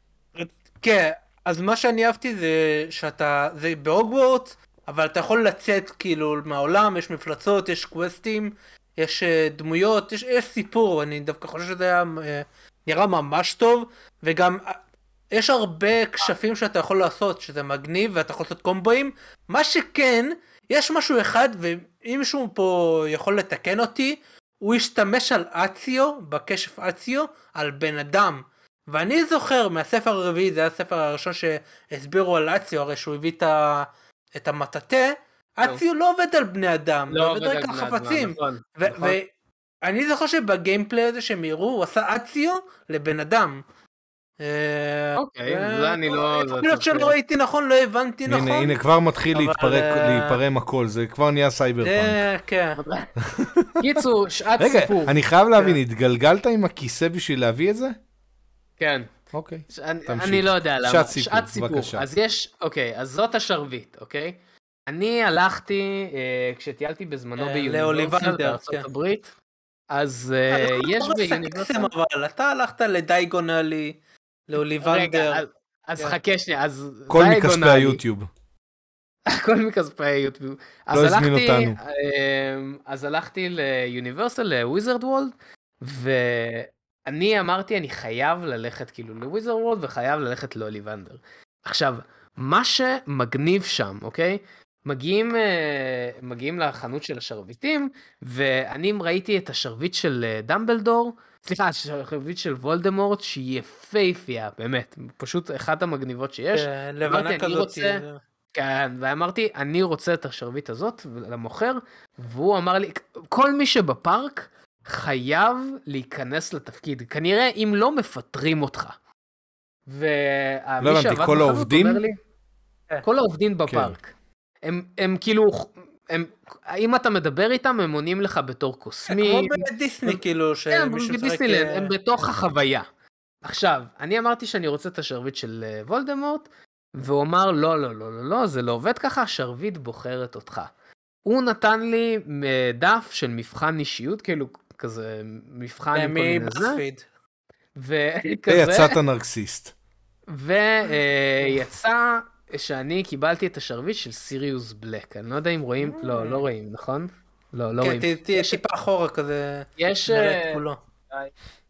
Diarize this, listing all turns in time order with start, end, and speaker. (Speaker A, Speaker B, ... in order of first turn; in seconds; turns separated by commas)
Speaker A: 0.4-14.8, Speaker A: 15.3-39.2, Speaker B: 37.1-39.2, Speaker A: 39.8-43.6, Speaker A: 44.4-48.8, Speaker B: 45.2-47.1, Speaker C: 48.3-52.2, Speaker A: 49.3-50.4, Speaker A: 51.8-52.8, Speaker B: 52.8-53.1, Speaker C: 53.2-54.0, Speaker B: 53.8-55.7, Speaker C: 54.6-58.0, Speaker B: 58.8-59.1, Speaker C: 59.3-62.0, Speaker B: 59.7-64.4, Speaker B: 64.9-69.3, Speaker A: 67.4-68.8, Speaker B: 69.9-71.9, Speaker A: 70.5-74.0, Speaker A: 74.5-75.4, Speaker B: 74.8-78.0, Speaker C: 77.1-78.3, Speaker B: 79.3-108.0, Speaker C: 80.9-81.8, Speaker A: 106.5-108.2, Speaker B: 108.5-119.0, Speaker B: 119.9-122.2, Speaker C: 120.8-122.0, Speaker B: 123.0-124.1, Speaker C: 123.7-124.0, Speaker B: 124.6-130.2, Speaker A: 129.1-131.9, Speaker B: 130.7-132.9, Speaker B: 133.4-140.7, Speaker B: 141.2-146.8, Speaker A: 145.9-147.1, Speaker B: 147.8-149.0, Speaker C: 148.5-149.7, Speaker B: 150.3-158.6, Speaker A: 155.8-156.4, Speaker A: 157.8-160.8, Speaker B: 159.8-161.3